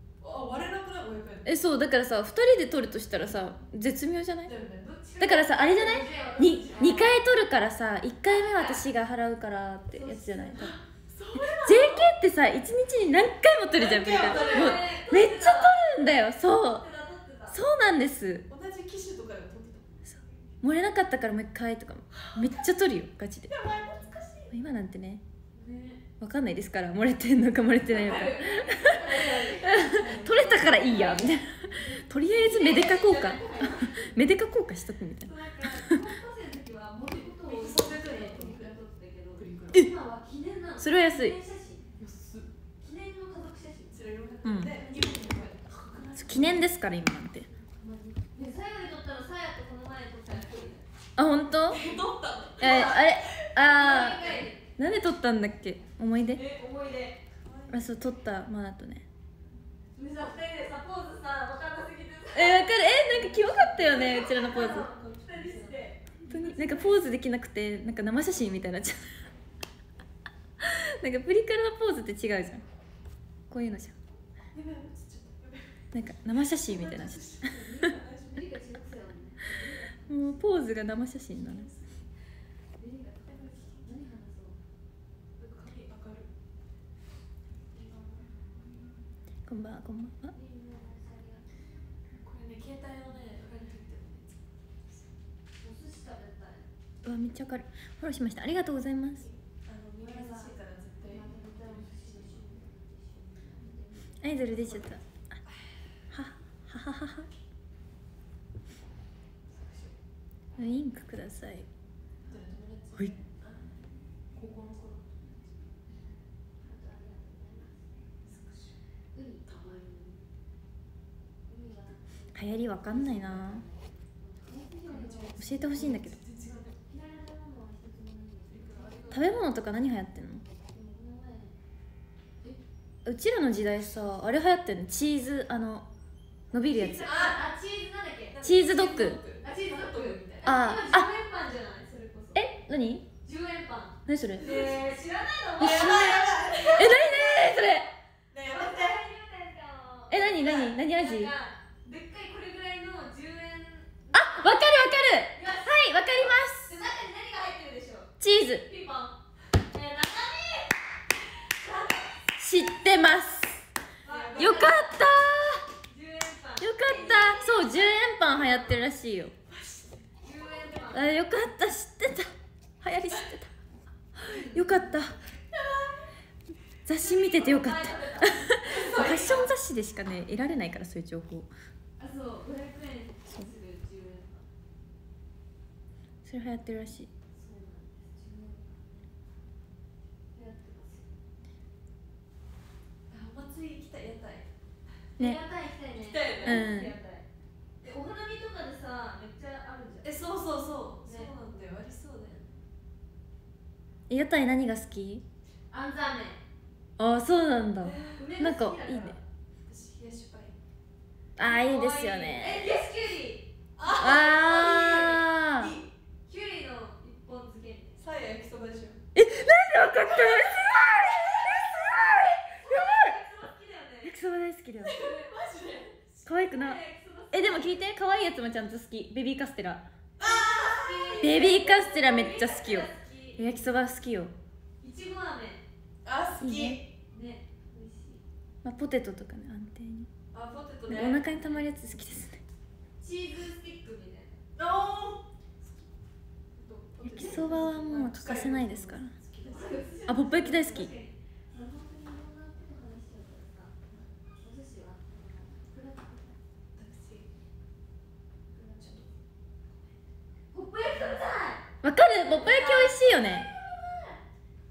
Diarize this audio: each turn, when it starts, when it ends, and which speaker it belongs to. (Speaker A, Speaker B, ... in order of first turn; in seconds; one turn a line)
Speaker A: 0.2-1.4
Speaker B: 1.4-4.5
Speaker A: 4.4-5.0
Speaker C: 4.8-7.2
Speaker B: 5.2-10.8
Speaker C: 8.3-8.8
Speaker C: 9.9-10.6
Speaker A: 10.6-12.1
Speaker B: 11.6-16.8
Speaker A: 13.7-14.9
Speaker C: 14.1-15.8
Speaker C: 16.6-17.6
Speaker B: 17.5-18.5
Speaker A: 18.5-20.0
Speaker B: 20.1-23.5
Speaker A: 22.1-22.5
Speaker A: 23.5-24.5
Speaker B: 24.5-25.2
Speaker C: 25.5-26.0
Speaker B: 26.2-36.0
Speaker C: 27.9-34.1
Speaker A: 27.9-28.4
Speaker A: 29.4-31.2
Speaker C: 35.2-41.8
Speaker A: 37.1-38.7
Speaker A: 39.4-39.9
Speaker B: 40.8-41.4
Speaker A: 41.9-42.5
Speaker C: 42.8-44.1
Speaker A: 43.9-46.6
Speaker B: 44.4-44.7
Speaker C: 44.6-46.5
Speaker B: 46.2-47.5
Speaker C: 47.4-50.8
Speaker B: 51.1-51.8
Speaker A: 51.7-53.5
Speaker C: 51.8-52.0
Speaker B: 52.6-56.4
Speaker C: 52.6-53.0
Speaker C: 53.5-54.6
Speaker C: 56.3-57.2
Speaker A: 57.4-57.9
Speaker B: 57.7-59.0
Speaker C: 60.0-66.9
Speaker B: 62.3-64.9
Speaker A: 63.8-66.9
Speaker B: 66.3-69.3
Speaker B: 70.6-72.6
Speaker B: 73.5-74.0
Speaker A: 74.5-78.5
Speaker B: 75.9-77.9
Speaker C: 77.6-80.5
Speaker B: 80.1-81.7
Speaker A: 81.4-82.0
Speaker C: 82.8-84.6
Speaker A: 83.3-83.8
Speaker A: 85.4-86.3
Speaker C: 87.7-88.3
Speaker B: 89.5-90.3
Speaker C: 90.3-91.5
Speaker A: 92.2-94.2
Speaker C: 93.4-93.9
Speaker C: 95.6-96.7
Speaker B: 97.0-99.3
Speaker A: 99.3-102.6
Speaker C: 100.0-105.0
Speaker B: 104.2-105.4
Speaker B: 106.1-107.3
Speaker A: 109.5-110.0
Speaker B: 110.6-111.7
Speaker A: 112.3-113.7
Speaker A: 114.3-115.5
Speaker C: 116.6-117.9
Speaker A: 118.2-118.8
Speaker C: 119.1-120.2
Speaker A: 119.5-119.8
Speaker C: 121.5-129.3
Speaker B: 122.3-123.6
Speaker A: 124.9-126.8
Speaker B: 125.4-126.2
Speaker A: 128.5-129.3
Speaker B: 129.1-130.4
Speaker C: 130.6-131.5
Speaker B: 133.0-135.9
Speaker B: 136.5-137.1
Speaker C: 136.7-138.4
Speaker A: 137.0-137.5
Speaker A: 138.3-140.5
Speaker B: 138.4-139.2
Speaker C: 139.4-142.5
Speaker B: 140.4-141.1
Speaker B: 142.3-143.1
Speaker C: 143.2-147.8
Speaker B: 144.1-144.5
Speaker A: 144.4-145.0
Speaker A: 145.5-147.0
Speaker B: 145.6-147.9
Speaker A: 148.3-149.0
Speaker C: 148.4-155.7
Speaker B: 150.1-151.3
Speaker B: 154.1-156.9
Speaker C: 156.6-159.2
Speaker B: 158.2-158.7
Speaker C: 159.7-160.8
Speaker C: 161.3-162.2
Speaker B: 162.3-163.7
Speaker C: 164.0-165.0
Speaker A: 164.1-164.8
Speaker B: 164.4-165.7
Speaker C: 165.9-168.8
Speaker B: 166.6-169.3
Speaker A: 169.5-170.9
Speaker C: 170.2-171.1
Speaker B: 170.9-173.5
Speaker B: 174.1-175.2
Speaker C: 174.2-175.1
Speaker A: 175.5-176.1
Speaker B: 176.8-181.5
Speaker C: 177.0-179.2
Speaker A: 178.6-179.5
Speaker C: 182.0-184.5
Speaker B: 186.2-187.1
Speaker C: 187.3-188.9
Speaker C: 190.3-191.1
Speaker A: 193.1-194.5
Speaker C: 195.2-197.2
Speaker A: 196.0-196.7
Speaker B: 196.4-196.9
Speaker C: 197.8-200.2
Speaker A: 200.0-202.4
Speaker C: 201.0-201.3
Speaker B: 204.1-205.2
Speaker C: 205.7-206.4
Speaker B: 207.0-209.2
Speaker A: 207.8-208.2
Speaker C: 208.1-209.2
Speaker A: 209.7-210.6
Speaker B: 211.4-212.7
Speaker C: 211.4-213.5
Speaker A: 213.8-214.9
Speaker B: 214.0-215.8
Speaker C: 214.0-215.2
Speaker A: 215.6-215.9
Speaker C: 216.2-218.0
Speaker A: 218.0-219.0
Speaker B: 219.1-223.1
Speaker A: 220.3-221.7
Speaker C: 222.5-224.1
Speaker B: 224.0-225.0
Speaker A: 224.8-226.2
Speaker B: 226.2-226.8
Speaker C: 226.3-227.8
Speaker B: 227.3-229.9
Speaker A: 230.2-231.2
Speaker C: 230.2-233.9
Speaker B: 231.2-234.3
Speaker C: 234.8-235.6
Speaker A: 236.0-236.9
Speaker B: 236.4-236.8
Speaker C: 237.1-238.2
Speaker B: 238.6-240.1
Speaker A: 240.3-241.7
Speaker B: 240.9-242.4
Speaker C: 243.0-244.4
Speaker A: 244.6-245.8
Speaker A: 246.6-249.9
Speaker B: 247.0-249.1
Speaker C: 249.4-256.4
Speaker B: 250.1-250.9
Speaker A: 256.7-257.3
Speaker C: 258.5-259.1
Speaker A: 258.8-259.1
Speaker C: 260.5-261.6
Speaker B: 261.8-263.4
Speaker C: 262.2-264.2